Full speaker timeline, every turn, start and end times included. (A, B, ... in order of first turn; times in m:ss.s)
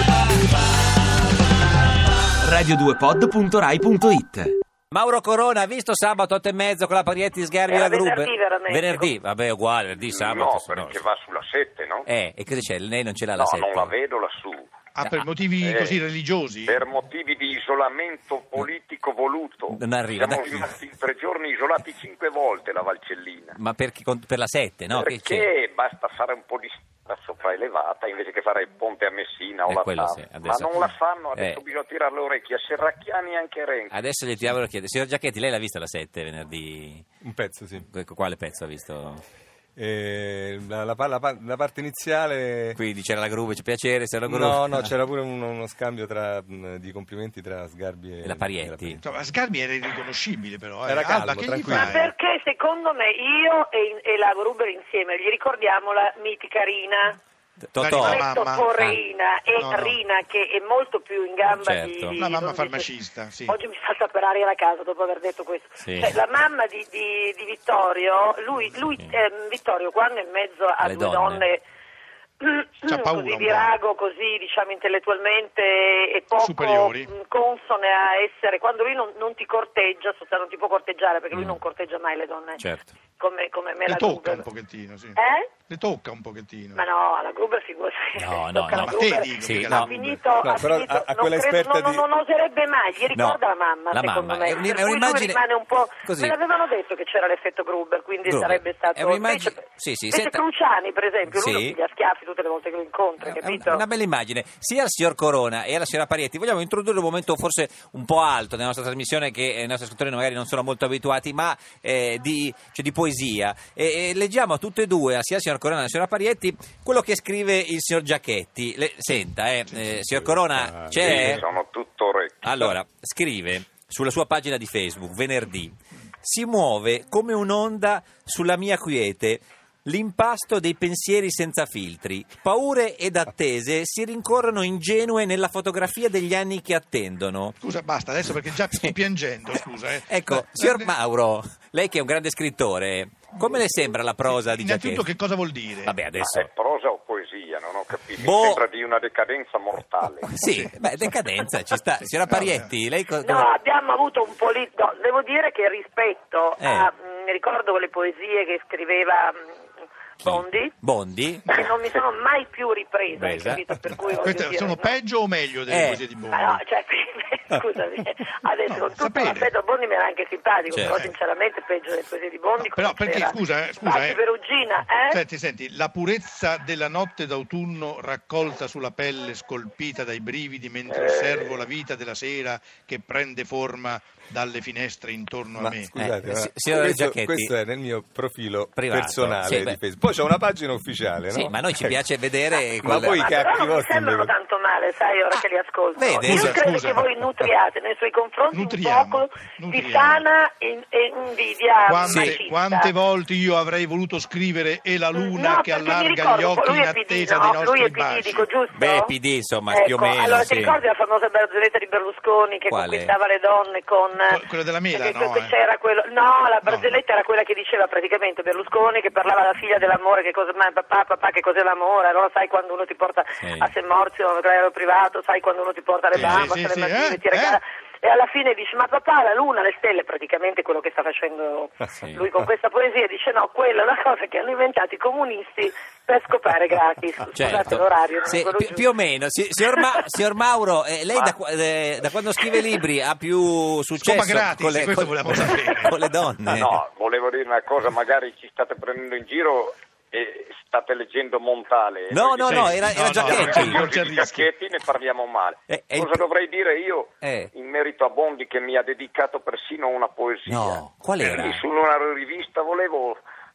0:02.4-0:04.6 A
0:04.9-0:11.0 B
0:07.7-0:09.1 C
0:10.0-0:12.1 D
0:12.0-0:13.9 B
0:13.4-0:16.0 D
0:15.0-0:16.8 E
0:16.6-0:23.6 D
0:19.7-0:20.7 B
0:23.6-0:25.5 B
0:24.9-0:33.9 D
0:29.7-0:31.6 B
0:33.9-0:37.0 B
0:37.2-0:37.8 F
0:37.8-0:39.2 B
0:39.8-0:42.8 F
0:42.8-0:44.9 B
0:44.3-0:49.0 F
0:48.2-0:49.0 B
0:49.0-0:52.0 E
0:50.8-0:52.1 F
0:51.7-0:57.2 C
0:57.7-0:59.0 B
0:57.8-0:58.7 E
0:58.0-1:03.0 C
0:59.6-1:00.0 E
1:01.5-1:02.2 B
1:02.2-1:03.6 E
1:03.5-1:11.6 C
1:05.8-1:06.2 B
1:08.8-1:09.2 B
1:10.8-1:11.4 B
1:12.4-1:22.7 C
1:12.9-1:13.7 E
1:16.4-1:17.1 E
1:21.3-1:21.6 B
1:22.6-1:22.9 B
1:23.2-1:24.5 C
1:23.9-1:26.8 E
1:25.2-1:25.5 C
1:26.8-1:43.8 C
1:28.2-1:29.9 B
1:28.8-1:30.2 E
1:30.4-1:32.0 F
1:33.1-1:36.4 B
1:38.2-1:40.4 B
1:41.3-1:41.8 B
1:43.2-2:01.4 B
1:59.9-2:01.4 F
2:00.9-2:02.7 D
2:02.4-2:17.6 B
2:17.6-2:20.9 E
2:20.1-2:25.0 B
2:24.4-2:26.0 E
2:25.8-2:26.5 B
2:26.2-2:30.4 D
2:28.2-2:28.6 B
2:30.2-2:33.5 B
2:33.2-2:39.6 C
2:36.6-2:36.9 B
2:40.2-2:42.0 B
2:40.2-2:40.8 C
2:41.5-2:45.0 C
2:43.1-2:44.0 B
2:44.2-2:46.6 E
2:45.7-2:46.0 B
2:46.3-2:55.2 C
2:48.7-2:49.5 E
2:50.7-2:51.0 B
2:52.6-2:54.2 E
2:55.1-3:05.9 E
3:00.9-3:01.7 D
3:05.6-3:12.0 F
3:06.0-3:07.5 B
3:08.8-3:09.8 B
3:11.3-3:13.3 B
3:12.8-3:14.3 F
3:13.2-3:22.9 C
3:16.0-3:16.8 B
3:16.2-3:17.0 E
3:18.5-3:20.2 E
3:21.9-3:28.5 E
3:22.1-3:22.4 B
3:25.2-3:29.1 C
3:28.7-3:30.8 B
3:29.7-3:34.4 C
3:29.8-3:30.8 F
3:32.7-3:33.2 B
3:34.3-3:35.6 E
3:34.9-3:58.9 C
3:36.7-3:37.0 E
3:43.4-3:43.7 B
3:46.1-3:46.5 B
3:46.2-3:47.6 E
3:52.0-3:52.2 B
3:57.4-4:06.8 B
4:01.1-4:01.4 D
4:04.0-4:05.9 E
4:06.5-4:23.2 D
4:12.1-4:13.8 B
4:12.5-4:14.5 E
4:15.7-4:16.2 B
4:17.2-4:17.5 B
4:20.5-4:21.6 B